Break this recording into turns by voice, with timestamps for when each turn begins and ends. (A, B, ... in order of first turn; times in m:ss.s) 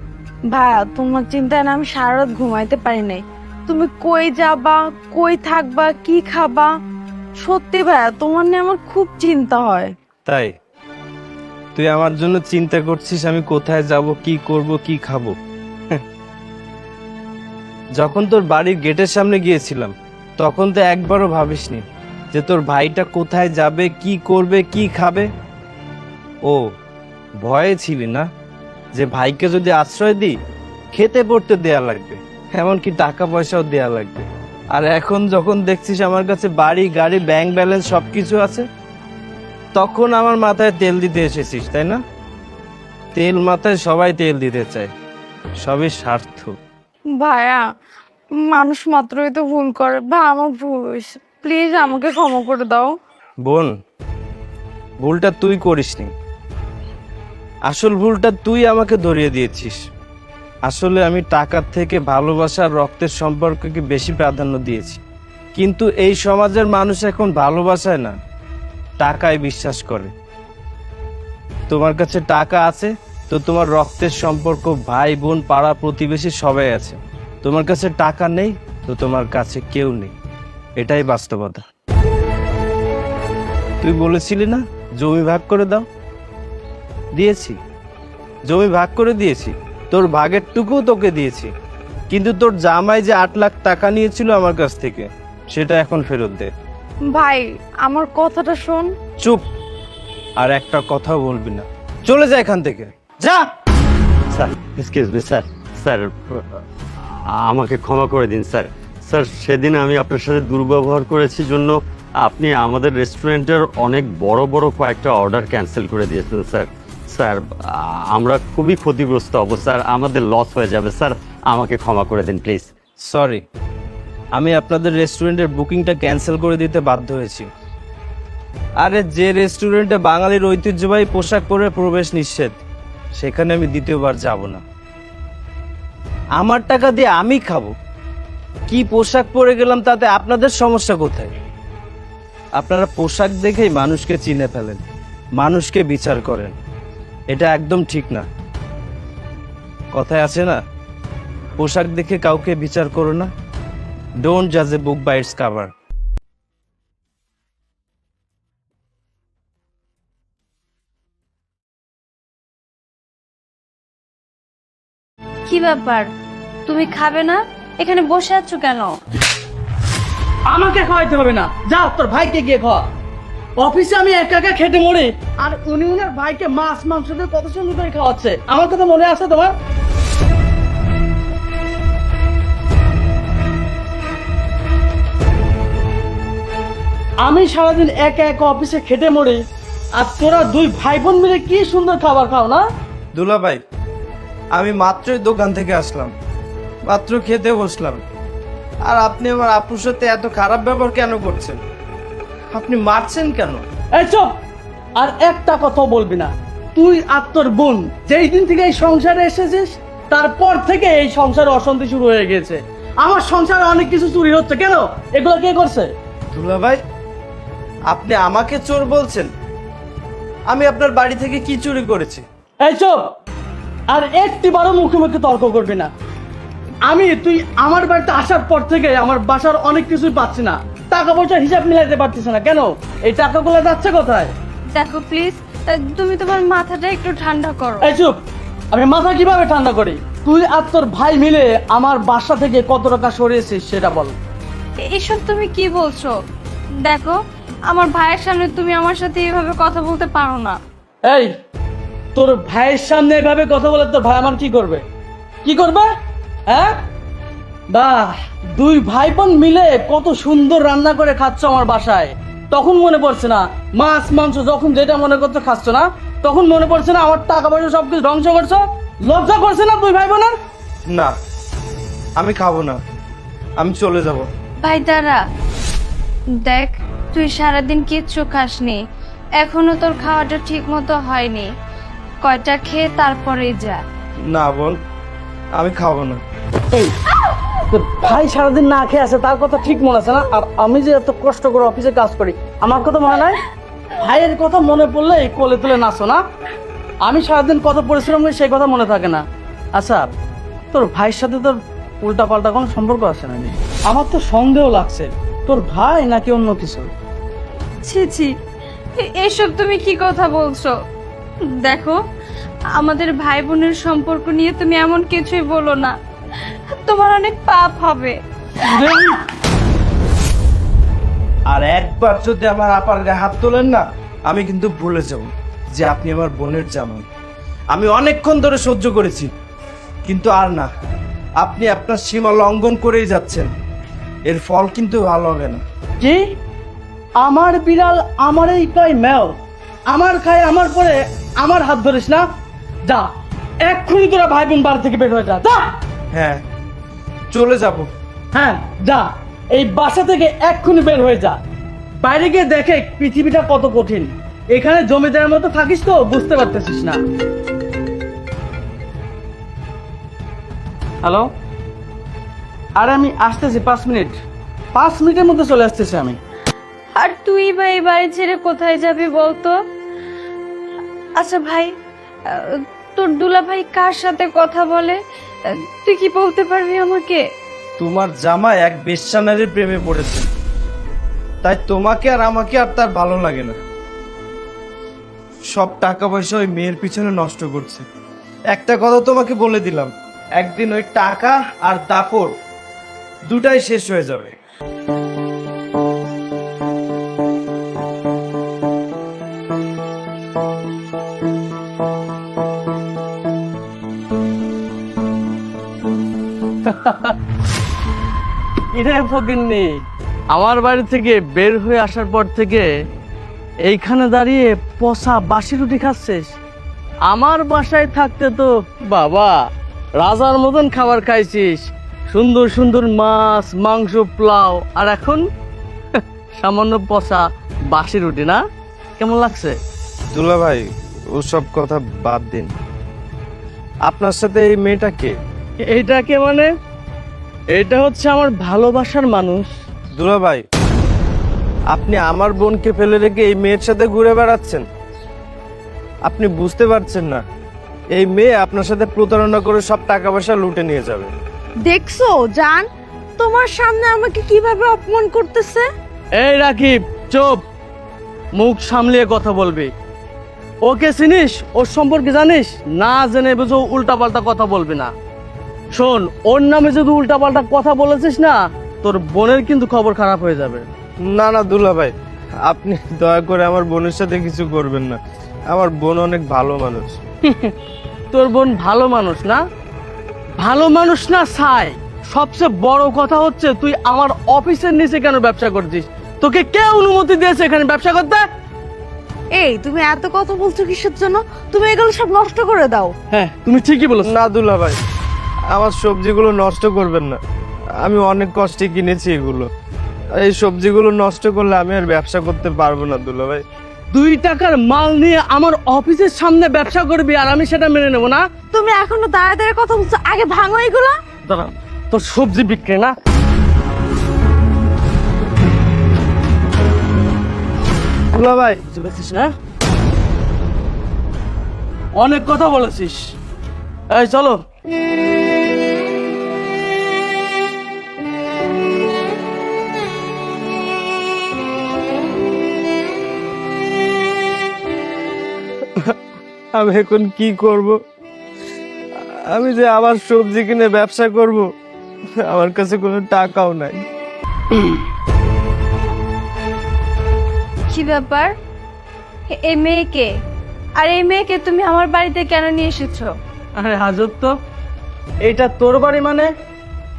0:00.5-0:06.7 A
0:07.4-0:09.9 A
0:10.2-0:10.5 B
0:11.8-0:15.4 B
0:18.0-0:25.3 B
0:27.4-0:28.3 B
0:29.0-0:30.4 B
0:30.9-0:38.7 B
0:39.8-0:42.0 B
0:43.1-0:44.9 B
0:45.6-0:46.6 B
0:47.2-0:47.6 A
0:48.4-0:52.9 A
0:53.4-0:53.7 B
0:55.0-0:56.1 B
0:57.7-0:59.8 B
1:00.7-1:05.0 B
1:05.6-1:08.2 B
1:09.0-1:10.1 B
1:11.7-1:20.2 B
1:20.8-1:21.7 B
1:23.8-1:25.9 B
1:27.2-1:27.6 B
1:28.5-1:31.5 B
1:32.1-1:36.5 B
1:37.1-1:38.9 A
1:40.4-1:43.5 B
1:44.3-2:02.7 C
2:03.0-2:03.4 B
2:04.4-2:07.5 B
2:08.8-2:12.6 B
2:13.2-2:14.6 B
2:16.4-2:17.7 B
2:18.7-2:21.4 B
2:22.6-2:24.8 B
2:25.4-2:26.6 B
2:27.3-2:28.3 B
2:29.9-2:30.6 B
2:31.6-2:33.3 B
2:34.2-2:35.7 B
2:45.5-2:46.1 D
2:46.7-2:49.0 D
2:50.5-2:52.9 E
2:53.6-2:59.6 E
3:07.2-3:09.4 E
3:10.0-3:12.6 E
3:13.2-3:13.6 B
3:14.5-3:16.1 B
3:16.9-3:18.0 B
3:18.9-3:21.6 B
3:22.5-3:23.6 B
3:23.9-3:24.3 E
3:25.0-3:35.9 E
3:36.3-3:36.8 B
3:37.9-3:39.3 B
3:40.5-3:42.2 B
3:42.6-3:43.0 E
3:43.9-3:45.9 E
3:46.9-3:54.3 E
3:54.7-3:57.9 D
3:57.8-3:58.2 E
3:58.7-4:04.2 E
4:04.9-4:06.1 D
4:06.8-4:10.6 D
4:11.1-4:11.3 E
4:12.2-4:14.8 E
4:15.4-4:15.9 E
4:16.5-4:16.8 E
4:17.7-4:30.4 E
4:32.2-4:32.8 B
4:33.6-4:34.3 B
4:34.6-4:35.2 D
4:36.4-4:38.8 D
4:39.4-4:41.5 D
4:42.2-4:43.8 D
4:44.3-4:44.8 B
4:45.6-4:46.2 B
4:46.7-4:47.0 E
4:47.5-4:53.4 E
4:54.0-4:56.2 E
4:57.0-4:59.2 E
4:59.8-5:00.1 E
5:00.7-5:06.9 E
5:07.8-5:08.3 D
5:09.0-5:10.8 D
5:11.6-5:12.0 D
5:12.8-5:16.0 D
5:16.8-5:19.0 D
5:21.5-5:27.1 B
5:27.7-5:29.3 B
5:30.1-5:30.7 B
5:31.4-5:33.5 B
5:34.3-5:35.6 B
5:36.0-5:36.3 E
5:37.2-5:39.3 E
5:39.9-5:42.2 E
5:43.6-5:45.7 E
5:46.1-5:46.4 B
5:47.3-5:47.9 B
5:48.3-5:51.4 E
5:52.0-5:57.0 E
6:01.0-6:01.3 E
6:02.8-6:04.2 E
6:04.8-6:06.2 E
6:07.0-6:09.6 D
6:11.2-6:11.7 D
6:12.3-6:17.2 D
6:17.8-6:20.3 B
6:21.4-6:23.6 B
6:25.5-6:27.9 B
6:28.5-6:32.4 B
6:33.3-6:34.4 B
6:46.6-6:47.2 E
6:48.7-6:49.8 E
6:50.3-6:52.7 E
6:53.6-6:56.3 E
6:57.1-6:59.4 E
7:00.0-7:05.2 E
7:05.9-7:08.4 E
7:09.0-7:09.6 E
7:10.1-7:12.6 B
7:13.9-7:15.2 B
7:15.7-7:16.5 E
7:17.5-7:19.5 E
7:20.0-7:20.4 B
7:21.7-7:24.6 B
7:26.1-7:27.2 B
7:28.0-7:31.1 B
7:31.6-7:32.6 A
7:33.2-7:35.7 A
7:36.2-7:37.4 E
7:38.4-7:39.7 E
7:40.6-7:44.9 E
7:45.8-7:50.6 E
7:51.0-7:51.9 B
7:52.4-7:55.0 B
7:55.5-7:57.0 B
7:57.2-7:57.5 E
7:58.1-7:59.4 E
8:00.4-8:08.2 E
8:09.4-8:12.9 A
8:13.1-8:14.1 E
8:14.0-8:14.8 B
8:15.5-8:17.2 B
8:17.8-8:19.5 B
8:20.2-8:23.4 B
8:23.9-8:28.2 E
8:28.5-8:31.0 A
8:31.3-8:33.0 E
8:38.1-8:38.6 B
8:38.7-8:39.3 E
8:42.0-8:43.1 E
8:43.9-8:44.4 E
8:55.7-8:56.0 B
8:56.6-8:57.8 B
8:59.0-9:01.5 B
9:02.2-9:03.8 B
9:07.7-9:08.3 D
9:09.3-9:10.1 D
9:10.8-9:13.1 D
9:13.6-9:14.4 E
9:15.2-9:16.3 E